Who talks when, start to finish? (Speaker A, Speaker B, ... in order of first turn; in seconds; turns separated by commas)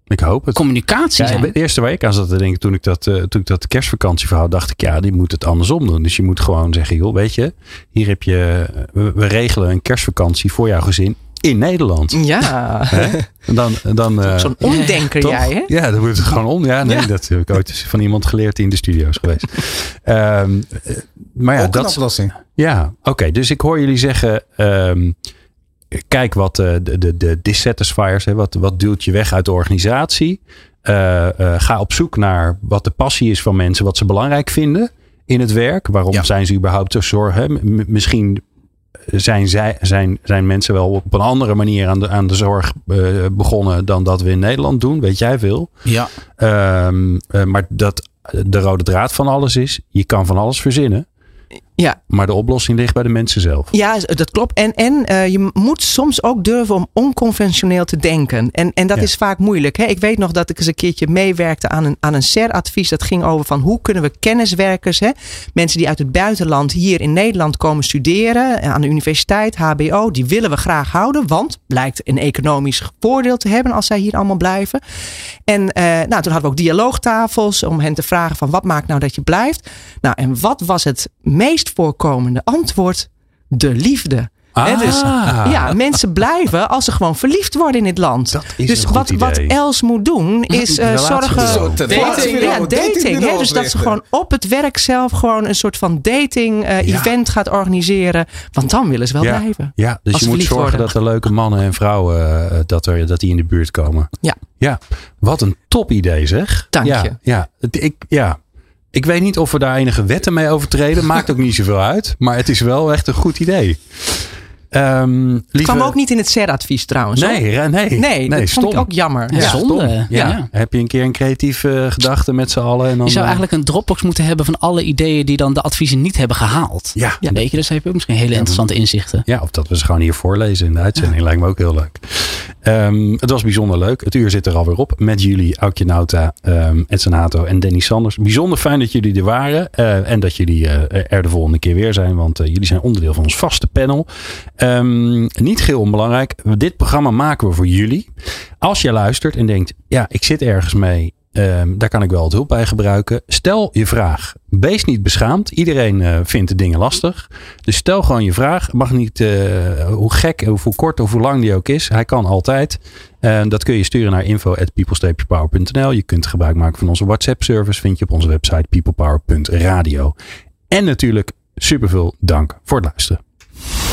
Speaker A: 0.1-0.6, Speaker B: 0.5-1.5, Speaker A: 1.2-22.0, Speaker C: 12.1-13.3, Speaker C: 14.2-15.7, Speaker D: 21.6-22.3, Speaker A: 22.6-25.1, Speaker A: 25.9-38.4, Speaker A: 39.1-45.8, Speaker D: 45.8-46.1, Speaker A: 46.4-51.0, Speaker A: 52.1-53.7, Speaker C: 53.7-74.8, Speaker C: 75.5-100.9, Speaker A: 84.5-85.7, Speaker A: 88.3-89.5, Speaker A: 90.7-92.1, Speaker D: 91.3-94.0, Speaker B: 91.9-92.6, Speaker A: 96.8-97.1, Speaker A: 99.2-108.4, Speaker C: 106.7-107.1, Speaker A: 108.9-115.9, Speaker C: 115.6-117.4, Speaker A: 117.2-123.4, Speaker C: 117.9-119.5, Speaker B: 119.3-120.5, Speaker B: 123.0-129.2, Speaker A: 127.0-127.2, Speaker A: 128.3-128.6, Speaker A: 129.3-144.1, Speaker A: 144.6-148.1, Speaker A: 148.6-170.1, Speaker A: 170.7-173.2